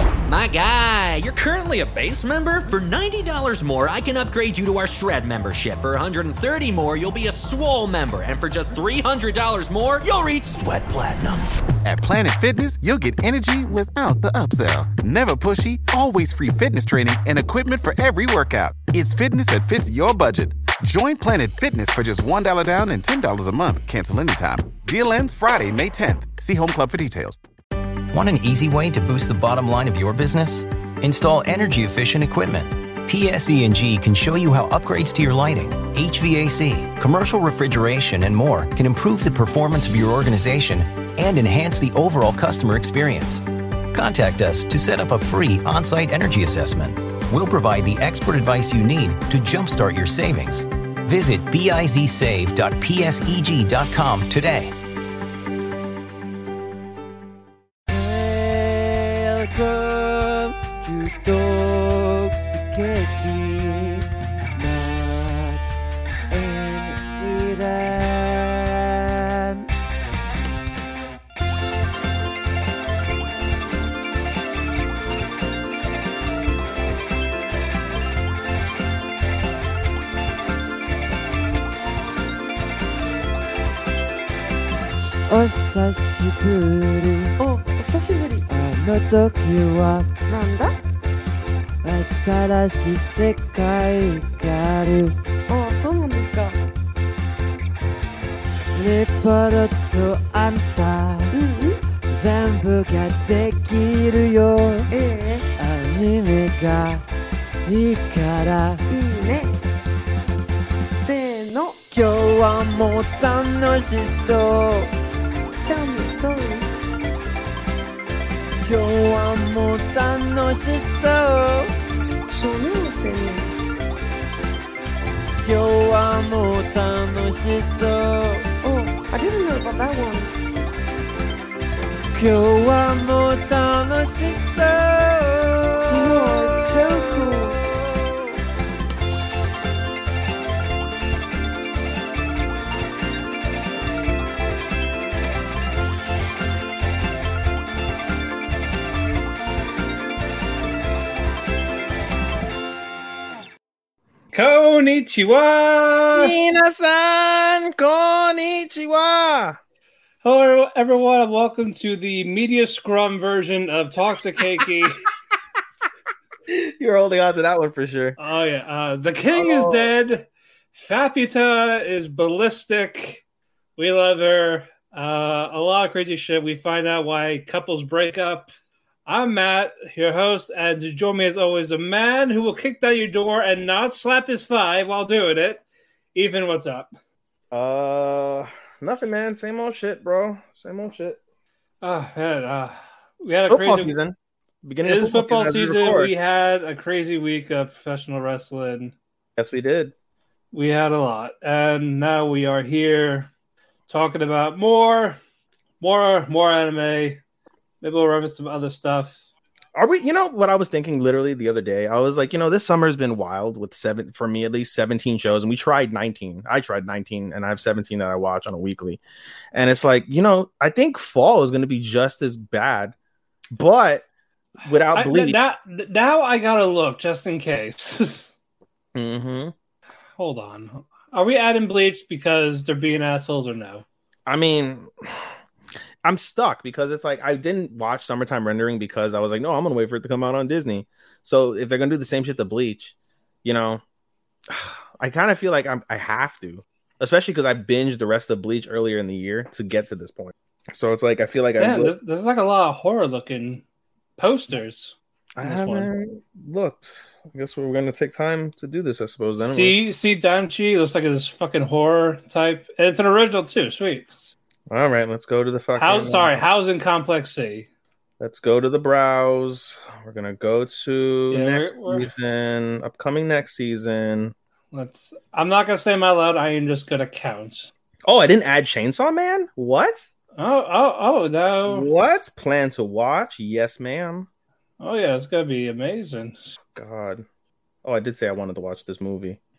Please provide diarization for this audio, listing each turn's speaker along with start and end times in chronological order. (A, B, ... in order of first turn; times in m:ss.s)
0:00.3-0:11.4 A
0:11.8-0:27.4 B
0:28.1-0:54.7 C
0:57.9-1:04.0 D
1:04.6-1:05.6 D
1:06.3-1:08.7 D
1:25.3-1:27.3 D
1:27.4-1:28.5 E
1:28.5-1:30.1 D
1:30.3-1:30.8 E
1:31.8-1:35.1 D
1:35.5-1:36.6 E
1:38.8-1:41.3 D
1:41.3-1:41.8 E
1:42.1-1:44.9 D
1:44.9-1:45.4 E
1:45.6-1:47.0 D
1:47.6-1:48.8 D
1:48.9-1:49.6 E
1:51.0-1:51.8 E
1:51.9-1:54.9 D
1:55.6-1:56.7 E
1:58.6-2:01.7 D
2:02.3-2:03.5 E
2:05.4-2:08.4 D
2:08.6-2:10.3 E
2:12.1-2:17.2 D
2:15.9-2:17.6 E
2:34.3-2:36.3 F
2:36.1-2:39.6 G
2:40.2-2:45.0 F
2:46.5-2:48.2 G
2:48.2-2:53.2 F
2:49.3-2:49.9 G
2:53.8-2:58.5 F
2:59.0-3:05.6 F
3:06.1-3:06.9 F
3:07.5-3:11.2 G
3:11.8-3:13.9 F
3:13.4-3:16.1 G
3:14.8-3:18.9 F
3:19.4-3:19.9 G
3:20.5-3:23.3 F
3:23.9-3:25.2 F
3:25.8-3:27.2 F
3:27.8-3:29.2 F
3:29.7-3:39.0 G
3:39.5-3:42.9 G
3:43.5-3:44.0 G
3:44.6-3:45.4 G
3:44.9-3:48.3 F
3:48.9-3:49.5 G
3:50.2-3:53.8 F
3:54.2-3:55.3 G
3:56.0-4:03.8 G
4:04.5-4:11.9 G
4:11.6-4:13.6 F
4:14.2-4:15.9 F
4:15.4-4:19.8 G
4:19.4-4:24.3 F
4:24.7-4:26.3 G
4:25.8-4:27.7 F
4:28.2-4:34.3 G
4:31.3-4:32.1 F
4:34.7-4:37.7 F
4:38.0-4:40.1 G
4:40.4-4:41.9 F
4:41.7-4:44.3 G
4:44.8-4:46.5 F
4:46.7-4:47.2 G
4:47.8-4:49.4 G